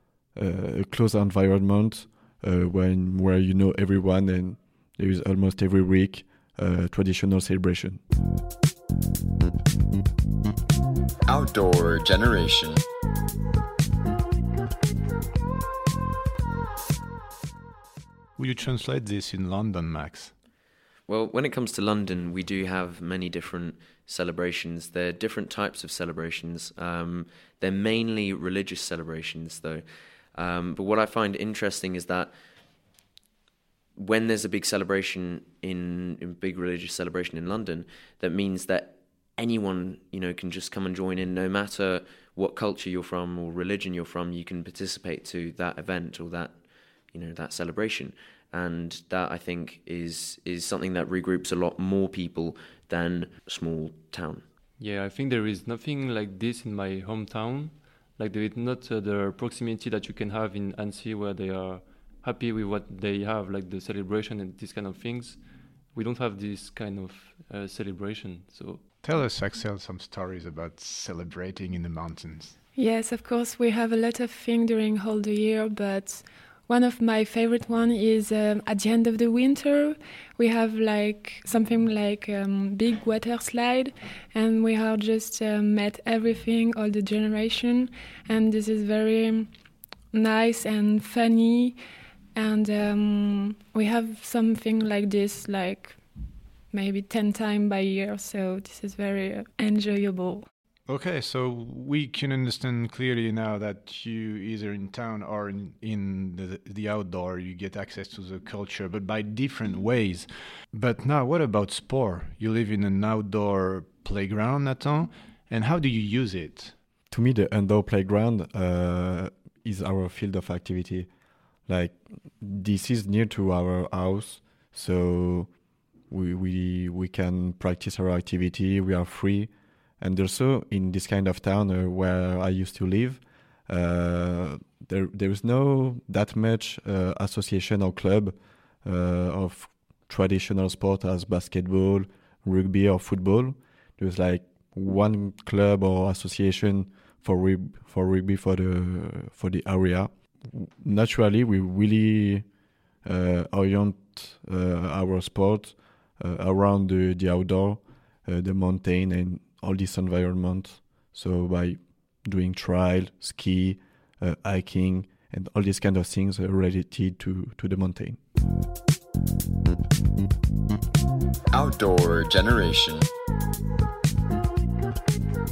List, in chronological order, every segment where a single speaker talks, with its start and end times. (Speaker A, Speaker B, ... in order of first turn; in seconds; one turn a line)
Speaker A: 0.3-8.0
Speaker B: 11.3-12.8
Speaker C: 18.4-20.3
Speaker D: 21.1-29.8
Speaker D: 30.4-32.3
Speaker D: 34.0-46.6
Speaker D: 47.1-54.4
Speaker E: 54.8-68.8
Speaker C: 69.0-72.6
Speaker F: 72.8-89.5
Speaker F: 90.1-91.8
Speaker F: 92.3-96.0
Speaker F: 96.7-100.5
Speaker C: 100.9-116.8
Speaker A: 117.1-121.1
Speaker A: 121.7-125.5
Speaker A: 126.1-152.5
Speaker A: 153.0-168.2
Speaker B: 171.5-173.1